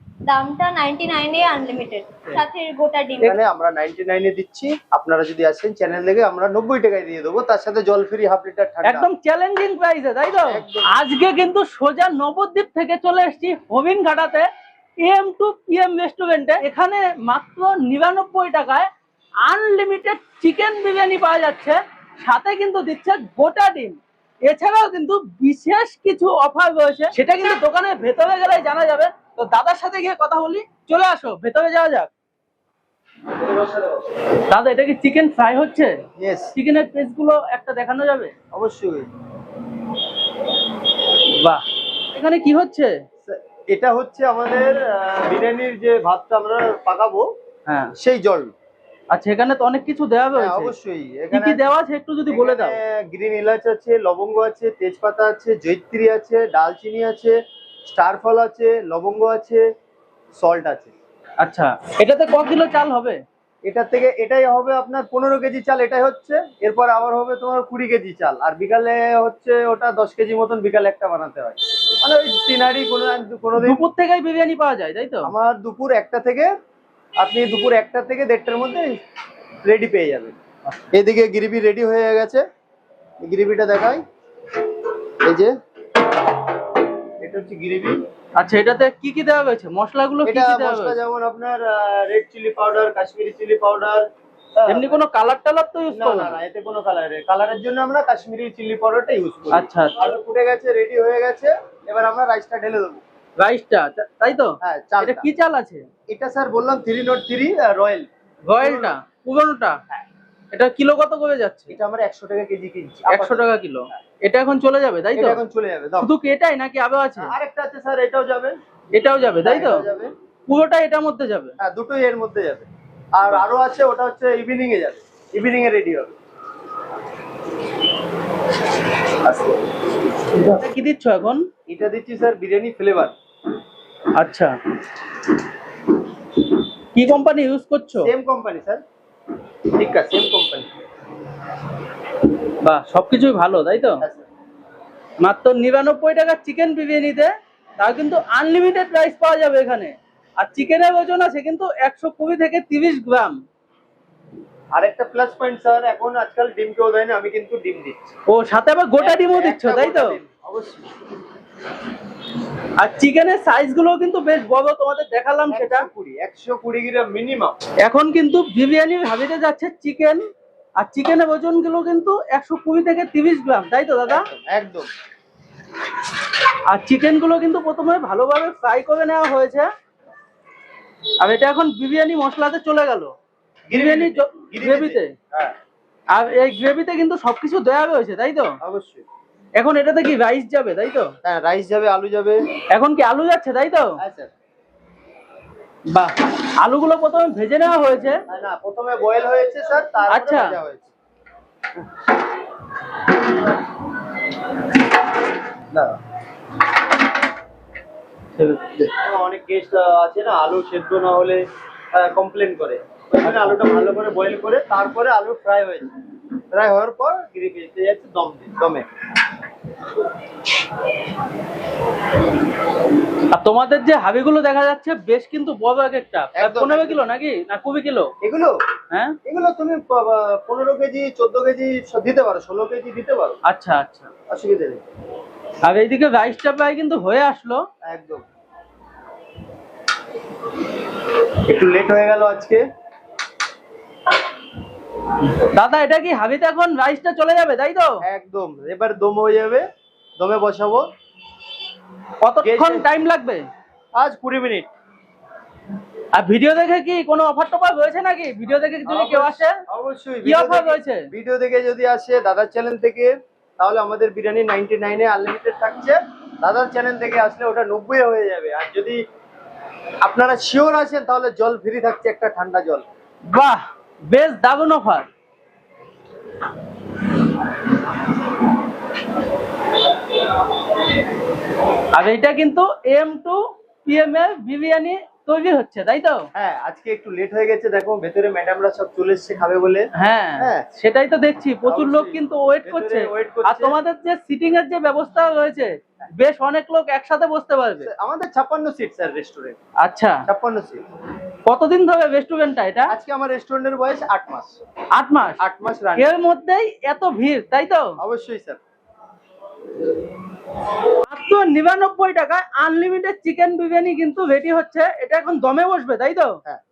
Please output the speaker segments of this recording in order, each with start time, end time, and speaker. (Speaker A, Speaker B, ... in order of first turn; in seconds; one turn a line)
Speaker A: 0.3-3.4
Speaker B: 3.2-9.1
Speaker C: 8.8-14.5
Speaker B: 10.5-11.0
Speaker C: 15.0-18.9
Speaker C: 19.4-32.1
Speaker B: 33.4-34.0
Speaker C: 34.3-35.9
Speaker B: 36.2-36.5
Speaker C: 36.5-38.3
Speaker B: 38.5-39.1
Speaker C: 41.2-42.9
Speaker B: 43.2-47.3
Speaker C: 47.7-47.9
Speaker B: 48.0-48.5
Speaker C: 49.1-50.7
Speaker B: 50.4-51.6
Speaker C: 51.3-52.8
Speaker B: 52.3-59.6
Speaker B: 60.3-60.9
Speaker C: 61.4-63.2
Speaker B: 63.6-73.8
Speaker C: 73.6-75.3
Speaker B: 75.2-76.5
Speaker B: 77.2-78.9
Speaker B: 79.6-82.4
Speaker B: 83.2-84.0
Speaker B: 85.2-85.5
Speaker B: 87.2-88.0
Speaker C: 88.4-91.0
Speaker B: 90.2-94.0
Speaker B: 94.5-95.0
Speaker C: 94.7-96.4
Speaker B: 95.9-103.0
Speaker C: 99.5-100.0
Speaker C: 103.4-105.8
Speaker B: 104.6-105.3
Speaker B: 106.1-108.1
Speaker C: 108.5-109.8
Speaker B: 108.6-108.9
Speaker C: 110.5-111.7
Speaker B: 111.7-114.0
Speaker C: 113.0-115.4
Speaker B: 115.2-116.1
Speaker C: 116.0-117.3
Speaker B: 117.2-118.5
Speaker C: 118.9-119.8
Speaker B: 119.4-120.1
Speaker C: 120.5-121.5
Speaker B: 121.6-126.1
Speaker B: 129.0-129.6
Speaker C: 130.4-131.4
Speaker B: 131.7-133.1
Speaker C: 134.2-134.5
Speaker C: 136.9-138.1
Speaker B: 138.0-138.8
Speaker B: 139.7-140.7
Speaker C: 142.6-144.1
Speaker B: 144.0-144.3
Speaker C: 145.2-153.4
Speaker B: 154.7-158.1
Speaker C: 158.3-160.2
Speaker B: 159.0-160.9
Speaker C: 162.8-165.9
Speaker B: 165.5-167.6
Speaker C: 167.8-170.2
Speaker C: 170.8-174.3
Speaker B: 174.1-174.9
Speaker C: 176.7-179.7
Speaker C: 181.2-183.1
Speaker B: 183.7-185.6
Speaker C: 183.7-185.1
Speaker C: 186.1-188.5
Speaker B: 188.6-189.1
Speaker C: 189.6-191.1
Speaker B: 191.2-192.4
Speaker C: 192.7-194.0
Speaker B: 194.0-194.3
Speaker C: 195.9-198.2
Speaker B: 198.3-200.9
Speaker C: 200.1-200.6
Speaker B: 205.7-206.0
Speaker C: 208.4-208.7
Speaker B: 208.8-215.9
Speaker B: 216.5-218.9
Speaker C: 223.3-228.1
Speaker B: 226.4-227.1
Speaker B: 228.2-228.6
Speaker B: 229.2-233.4
Speaker C: 233.5-234.1
Speaker B: 234.3-234.8
Speaker C: 235.6-237.6
Speaker B: 237.8-238.2
Speaker B: 241.3-242.6
Speaker C: 245.2-248.0
Speaker B: 248.1-249.7
Speaker B: 250.2-250.9
Speaker C: 252.2-253.5
Speaker B: 252.4-252.9
Speaker B: 253.9-254.7
Speaker C: 256.1-259.6
Speaker B: 258.9-269.0
Speaker C: 260.2-261.1
Speaker B: 270.0-272.9
Speaker C: 273.3-275.1
Speaker C: 281.9-286.2
Speaker B: 286.4-290.7
Speaker C: 289.9-297.9
Speaker B: 291.6-293.8
Speaker B: 297.8-299.6
Speaker C: 299.8-300.2
Speaker B: 300.3-300.8
Speaker C: 301.4-302.9
Speaker B: 302.9-304.6
Speaker C: 304.9-305.4
Speaker B: 305.4-306.1
Speaker C: 306.0-307.9
Speaker B: 308.0-308.6
Speaker C: 310.9-316.4